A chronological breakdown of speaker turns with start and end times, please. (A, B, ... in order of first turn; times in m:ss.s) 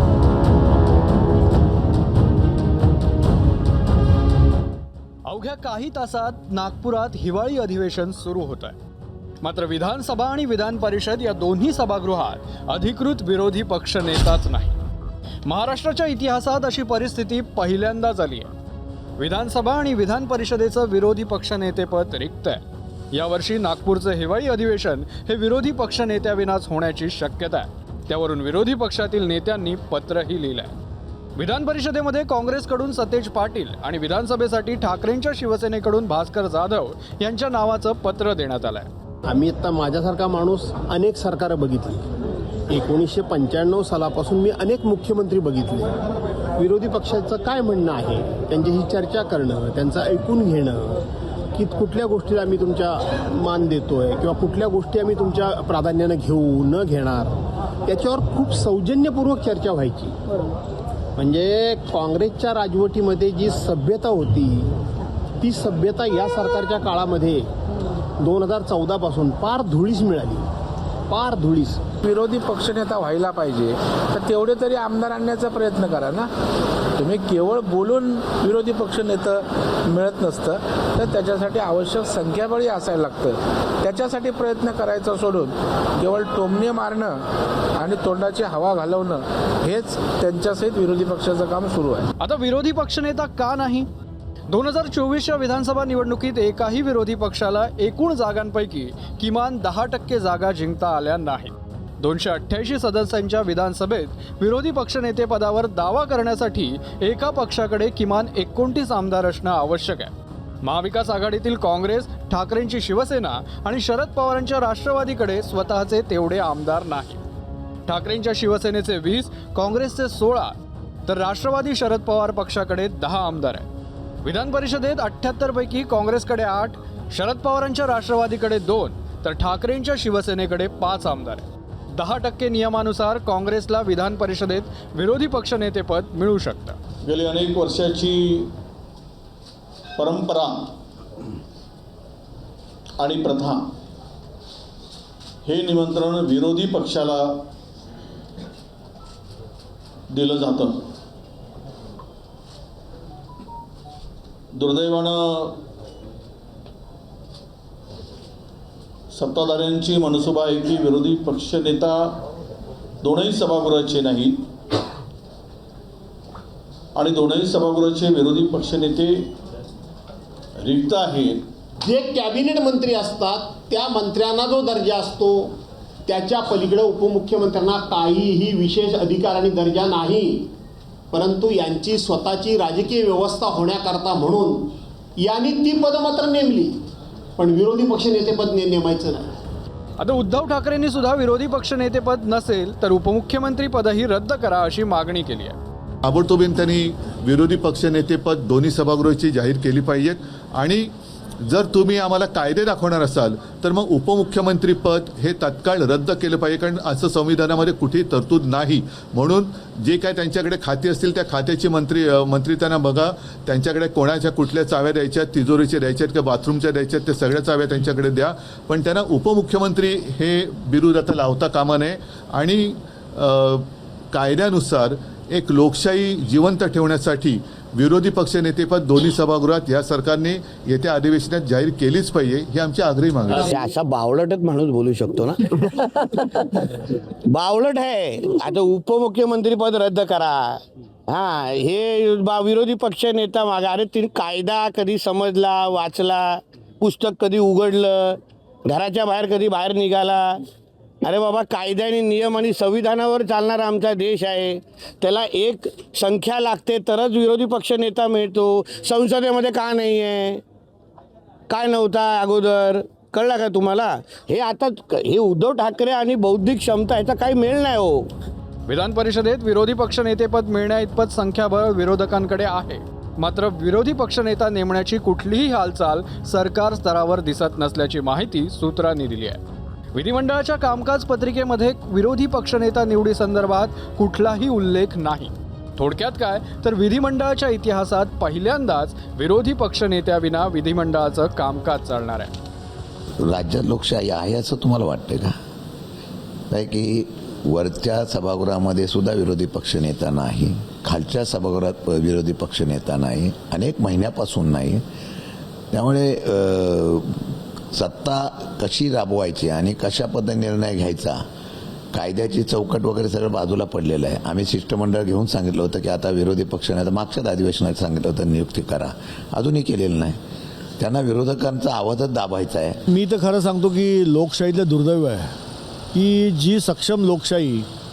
0:05.2-0:08.8 A
0:09.4-0:14.8 A
0:15.4-0:18.5 A
0:19.2-0:22.6 A
0:23.1-0:30.7 A
0:31.4-0:38.9 A
0:39.2-0:42.0 B
0:42.7-0:45.9 B
0:46.6-0:51.0 B
0:51.6-1:00.2 B
1:01.2-1:04.7 B
1:05.4-1:07.5 B
1:08.2-1:10.5 B
1:11.1-1:11.8 B
1:12.1-1:16.3 C
1:17.0-1:27.2 C
1:27.8-1:32.1 C
1:32.2-1:33.9 A
1:34.5-1:50.1 A
1:50.6-1:57.2 A
1:57.9-2:00.6 A
2:01.1-2:03.6 A
2:04.2-2:16.8 A
2:17.0-2:18.5 D
2:20.0-2:20.7 D
2:23.0-2:23.7 D
2:25.4-2:27.5 D
2:30.1-2:30.8 D
2:34.5-2:35.6 D
2:39.1-2:42.2 D
2:43.0-2:44.4 D
2:46.9-2:49.3 D
2:50.6-2:51.4 D
2:51.8-3:00.5 B
3:01.1-3:06.8 B
3:07.4-3:09.3 B
3:10.0-3:15.6 A
3:16.0-3:53.5 E
3:53.4-3:56.7 F
3:57.3-4:10.4 F
4:11.0-4:20.4 F
4:21.5-4:28.1 F
4:28.7-4:39.4 A
4:39.9-4:52.3 A
4:53.2-4:55.3 G
4:56.5-5:04.8 G
5:05.7-5:11.2 G
5:11.9-5:20.2 G
5:20.8-5:22.8 G
5:22.9-5:25.3 H
5:25.9-5:27.7 H